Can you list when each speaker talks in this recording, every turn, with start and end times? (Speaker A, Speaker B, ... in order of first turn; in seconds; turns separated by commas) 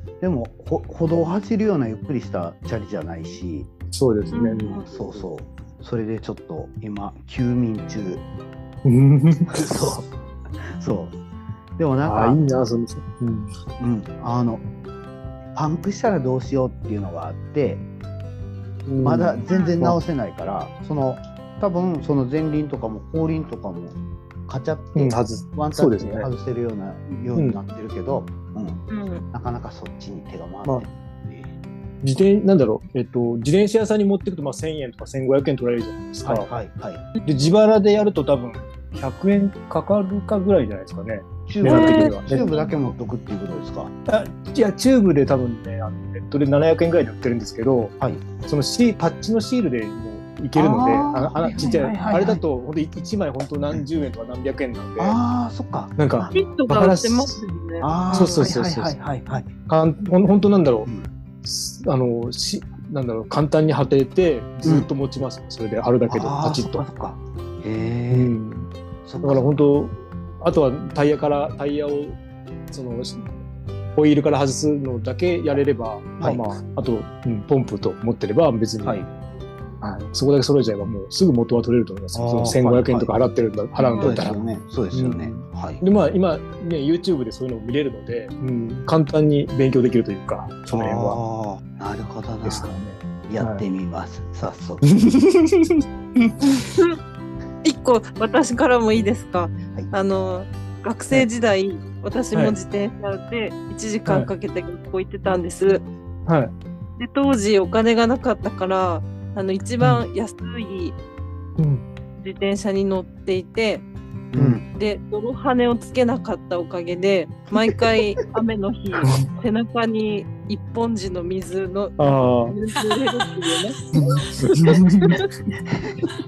Speaker A: 0.2-3.7, Speaker B: 3.9-5.2, Speaker C: 4.3-4.9, Speaker A: 4.6-8.2, Speaker B: 8.8-10.0, Speaker A: 9.5-10.0, Speaker A: 10.8-11.2, Speaker A: 11.8-12.4, Speaker B: 12.0-13.5, Speaker A: 13.8-14.6, Speaker A: 15.5-17.8, Speaker B: 18.9-20.0, Speaker A: 19.0-23.9, Speaker A: 24.5-31.5, Speaker B: 24.9-26.3, Speaker C: 28.9-29.2, Speaker B: 32.0-36.5, Speaker A: 36.2-37.0, Speaker B: 37.2-42.4, Speaker A: 41.5-43.9, Speaker C: 41.6-42.7, Speaker B: 44.1-55.2, Speaker A: 48.0-48.2, Speaker A: 50.5-52.4, Speaker A: 55.0-56.4, Speaker B: 56.0-57.4, Speaker C: 56.3-58.5, Speaker A: 57.8-59.5, Speaker B: 58.1-58.9, Speaker B: 59.6-60.9, Speaker B: 61.4-66.8, Speaker A: 64.6-64.9, Speaker A: 66.0-68.3, Speaker B: 68.1-68.7, Speaker A: 69.0-69.5, Speaker B: 69.2-72.2, Speaker B: 72.7-73.3, Speaker B: 73.9-79.0, Speaker B: 79.8-84.3, Speaker A: 82.1-83.1, Speaker C: 83.8-84.2, Speaker A: 84.0-85.8, Speaker B: 84.9-91.2, Speaker A: 90.7-92.7, Speaker B: 92.4-93.6, Speaker A: 93.3-94.8, Speaker B: 94.8-95.8, Speaker C: 96.4-97.0, Speaker C: 97.6-105.9, Speaker B: 106.2-106.5, Speaker C: 107.0-111.0, Speaker B: 111.6-111.8, Speaker C: 112.2-113.8, Speaker A: 114.3-114.6, Speaker B: 114.3-114.6, Speaker C: 114.7-124.3, Speaker B: 122.0-122.5, Speaker A: 123.9-124.8, Speaker B: 124.4-125.2, Speaker C: 125.0-125.3, Speaker A: 125.8-126.1